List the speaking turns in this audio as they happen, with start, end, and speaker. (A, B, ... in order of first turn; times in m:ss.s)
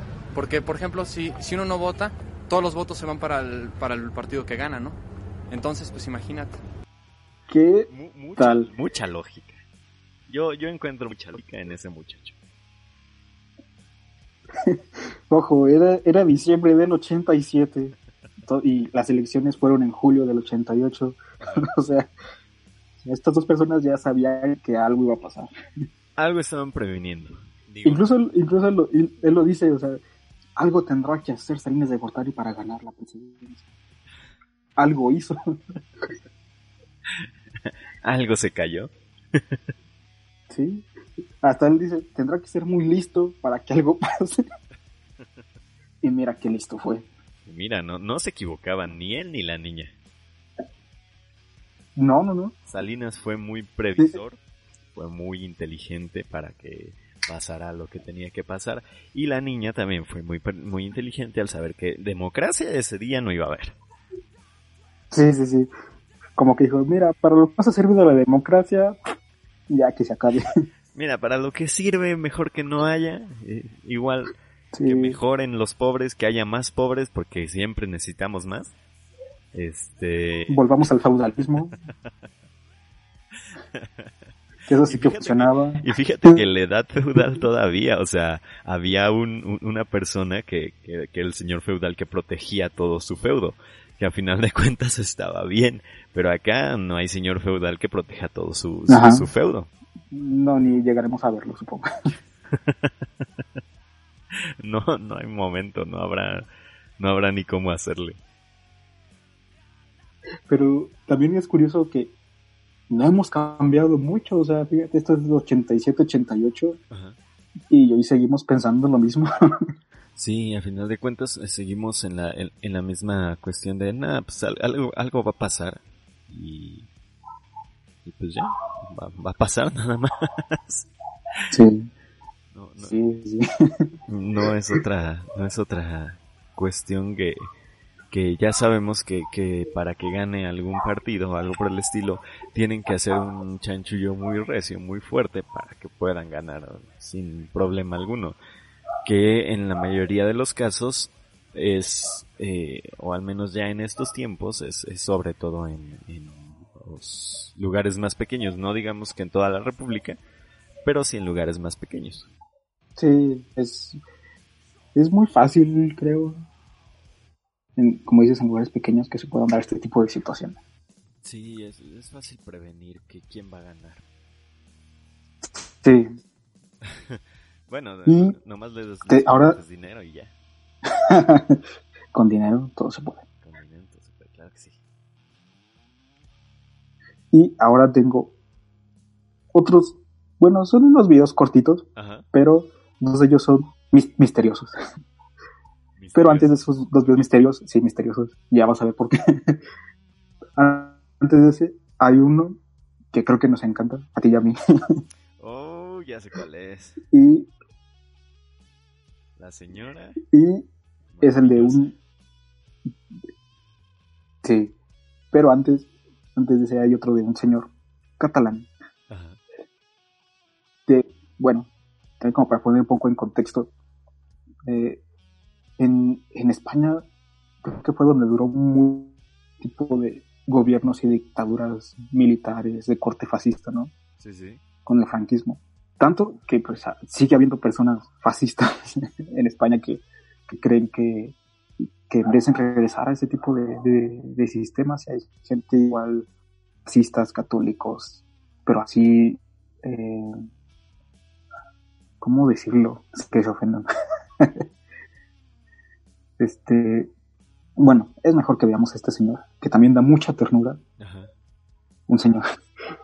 0:00.3-0:05.0 A
0:05.5-0:06.6 A
0:07.5-0:08.7 B
0:07.9-0:09.6 C
0:10.3-0:12.3 C
0:15.3-0:22.1 B
0:23.0-0:25.5 B
0:26.2-0:28.1 C
0:27.8-0:30.0 B
0:30.6-0:33.6 B
0:34.8-0:35.4 B
0:37.2-0:39.6 C
0:40.5-0:40.9 B
0:41.4-0:44.4 B
0:46.0-0:47.0 B
0:47.4-0:49.9 C
0:52.0-0:52.6 B
0:52.6-0:54.4 C
0:54.9-1:03.8 C
1:05.1-1:05.7 B
1:06.4-1:09.0 B
1:09.7-1:10.4 B
1:10.9-1:14.3 C
1:14.7-1:15.2 B
1:14.8-1:18.7 C
1:19.5-1:20.6 C
1:20.5-1:21.8 B
1:23.6-1:24.1 C
1:24.7-1:26.4 B
1:24.9-1:39.7 C
1:38.9-1:39.3 B
1:40.1-1:42.1 B
1:42.5-1:42.9 C
1:44.4-1:46.4 C
1:47.0-1:48.2 C
1:50.5-1:52.1 B
1:52.9-1:56.8 B
1:56.9-1:57.2 C
1:57.7-1:59.3 B
2:00.2-2:06.9 C
2:08.0-2:10.9 C
2:11.5-2:11.9 B
2:12.5-2:13.0 C
2:12.8-2:13.4 B
2:14.1-2:17.5 C
2:18.1-2:28.4 C
2:29.0-2:40.2 C
2:40.8-2:42.3 C
2:43.0-2:44.0 B
2:44.9-2:46.4 B
2:47.8-2:50.6 B
2:51.2-2:54.0 C
2:55.8-2:56.1 B
2:56.8-3:00.3 C
2:58.1-2:58.3 B
2:59.1-2:59.6 B
3:01.1-3:01.6 B
3:02.1-3:03.2 B
3:03.4-3:04.8 C
3:07.3-3:08.3 B
3:09.5-3:14.7 B
3:12.0-3:12.3 C
3:16.0-3:16.6 C
3:16.1-3:19.6 B
3:20.6-3:22.6 B
3:23.1-3:24.6 B
3:25.4-3:27.0 C
3:27.1-3:27.5 B
3:29.4-3:30.2 C
3:30.3-3:30.7 B
3:31.1-3:31.9 C
3:31.2-3:31.9 B
3:34.4-3:34.7 B
3:35.3-3:38.7 B
3:39.1-3:39.4 C
3:40.9-3:41.7 B
3:42.2-3:43.7 B
3:44.7-3:45.0 B
3:45.8-3:47.0 B
3:47.6-3:53.9 B
3:54.2-3:54.6 C
3:54.9-4:06.3 B
4:06.9-4:10.3 B
4:12.2-4:13.9 B
4:16.4-4:17.1 B
4:17.8-4:20.8 B
4:21.0-4:21.3 C
4:22.1-4:22.4 B